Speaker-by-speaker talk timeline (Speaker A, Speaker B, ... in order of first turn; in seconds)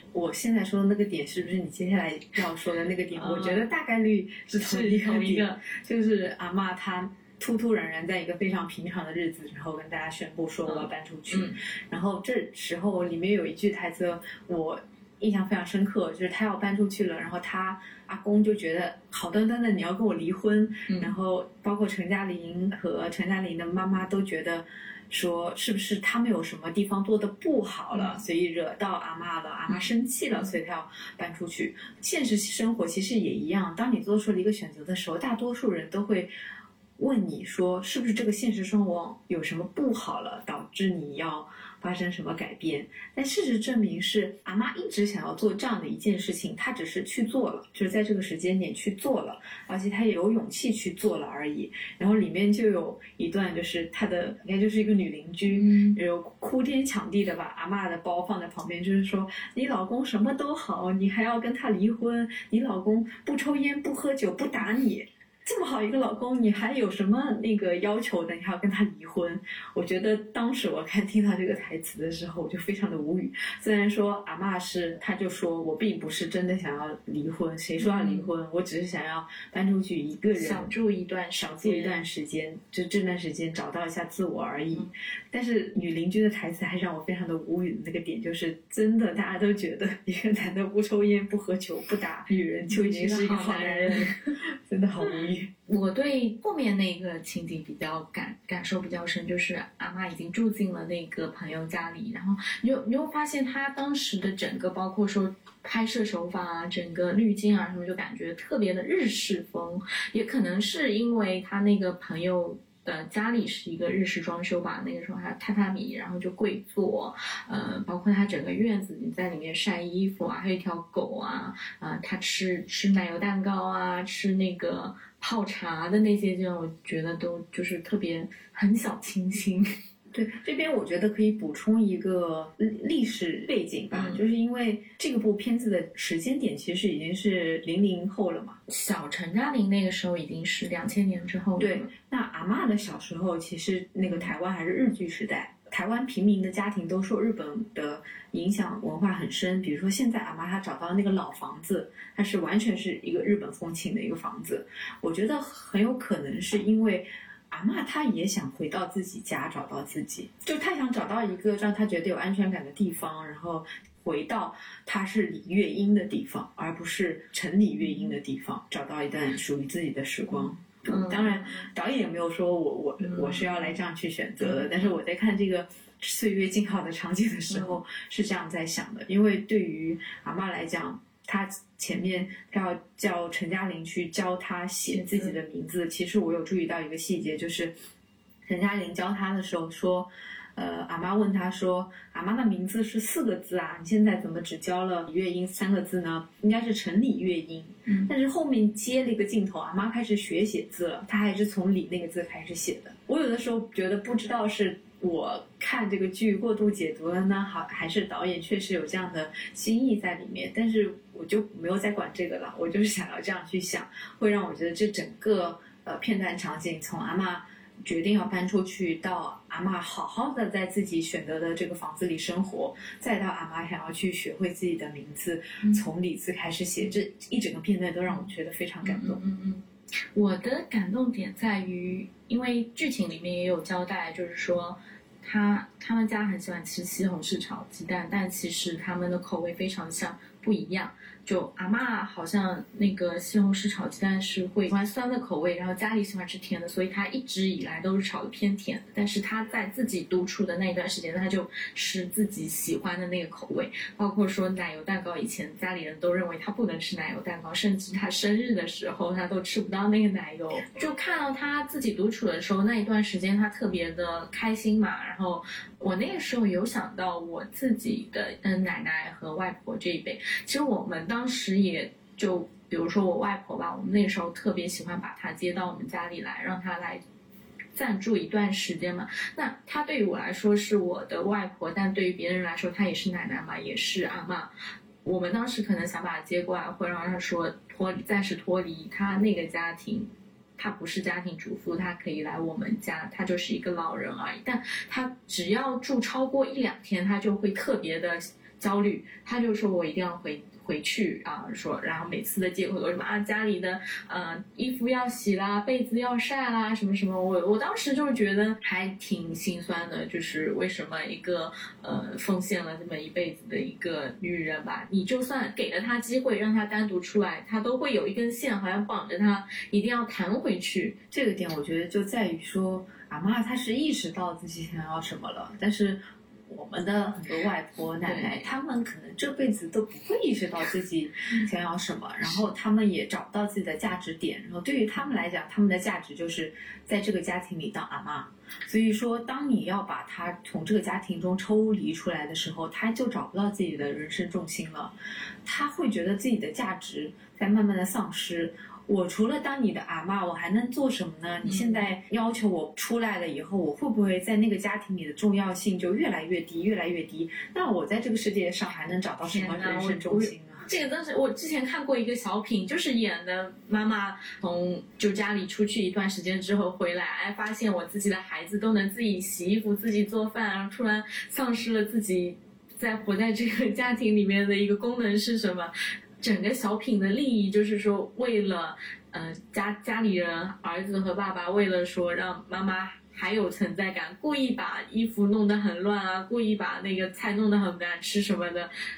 Speaker A: 0.1-36.3, 37.0-80.7, 81.4-95.5, 130.1-138.6, 141.6-187.7, 188.4-229.2, 321.1-344.9, 345.4-360.7
Speaker B: 3.1-3.7, 4.6-5.6, 10.7-11.6, 20.9-21.1, 55.5-56.0, 77.8-78.3, 80.3-82.0, 92.7-94.1, 95.7-129.7, 133.9-134.2, 138.7-141.9, 144.1-144.3, 170.9-171.7, 173.0-173.7, 184.9-185.4, 228.8-229.6, 230.1-277.0, 277.7-284.5, 285.0-321.0, 328.0-328.5, 351.4-351.9, 359.3-388.7